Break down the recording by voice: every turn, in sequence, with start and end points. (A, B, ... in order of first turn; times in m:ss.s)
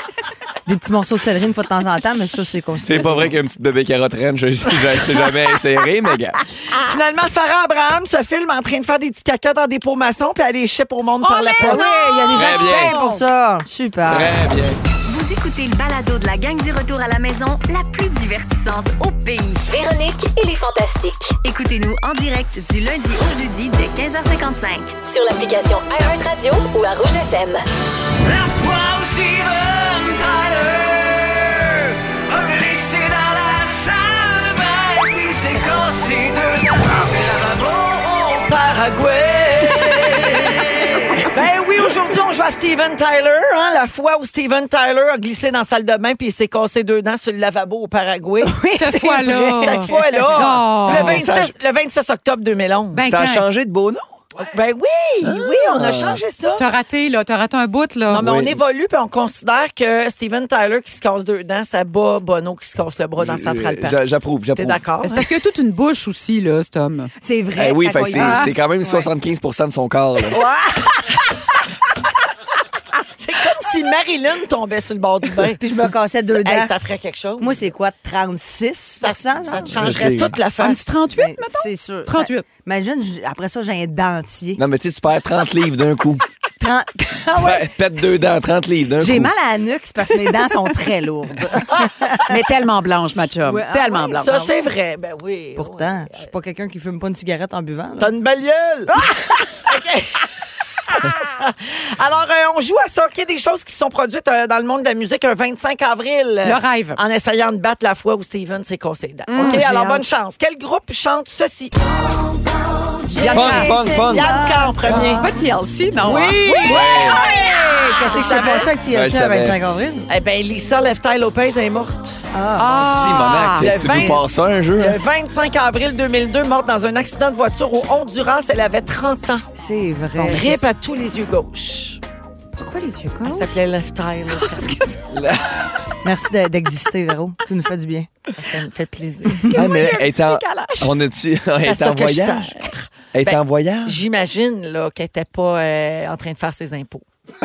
0:00.7-0:03.3 A
0:02.8-0:06.4 B
0:06.8-0:11.9 C
0:11.3-0:13.2 D
0:11.4-0:14.3 A
0:12.3-0:13.0 B
0:14.1-0:14.8 B
0:15.1-0:27.6 E
0:28.2-0:40.1 F
0:38.5-0:48.7 C
0:48.4-0:50.5 A
0:48.8-0:51.2 D
0:49.3-0:53.0 C
0:50.8-0:51.5 B
0:52.9-0:53.5 D
0:53.0-0:54.2 B
0:54.4-0:56.7 C
0:55.2-0:56.2 B
0:56.6-0:58.2 D
0:58.1-1:04.0 C
0:58.1-0:58.6 B
1:03.2-1:04.8 B
1:04.6-1:05.3 C
1:05.0-1:07.1 D
1:07.2-1:09.1 A
1:07.6-1:10.4 B
1:08.2-1:08.5 D
1:10.2-1:11.3 A
1:13.2-1:15.7 C
1:15.5-1:16.7 A
1:16.3-1:17.7 C
1:17.4-1:20.3 A
1:19.0-1:20.9 C
1:19.8-1:20.4 B
1:20.6-1:22.4 D
1:21.0-1:24.6 A
1:24.6-1:26.2 B
1:26.6-1:27.7 A
1:27.4-1:29.3 B
1:29.0-1:32.4 A
1:32.3-1:34.4 D
1:33.5-1:34.6 A
1:34.2-1:36.3 C
1:35.6-1:38.1 A
1:38.0-1:39.0 C
1:38.9-1:39.6 A
1:39.7-1:40.3 C
1:40.9-1:51.8 C
1:46.4-1:47.0 D
1:49.3-1:49.6 D
1:49.4-1:50.1 A
1:53.1-1:55.3 A
1:53.2-1:53.7 D
1:53.3-1:54.3 B
1:53.7-1:55.2 C
1:54.9-1:56.8 D
1:56.0-1:57.3 C
1:56.5-2:00.1 A
1:56.6-1:57.2 B
1:58.1-1:58.7 C
1:58.1-1:58.6 D
1:58.9-1:59.6 B
2:00.1-2:02.2 C
2:02.3-2:03.0 A
2:02.6-2:03.7 D
2:02.8-2:05.0 B
2:03.6-2:09.5 C
2:09.6-2:10.7 A
2:10.3-2:12.0 C
2:12.6-2:13.5 D
2:13.3-2:15.0 C
2:15.1-2:15.8 B
2:16.0-2:18.1 A
2:18.4-2:19.6 C
2:19.3-2:19.6 A
2:19.5-2:21.0 D
2:19.5-2:22.5 B
2:21.6-2:27.0 C
2:23.2-2:24.0 B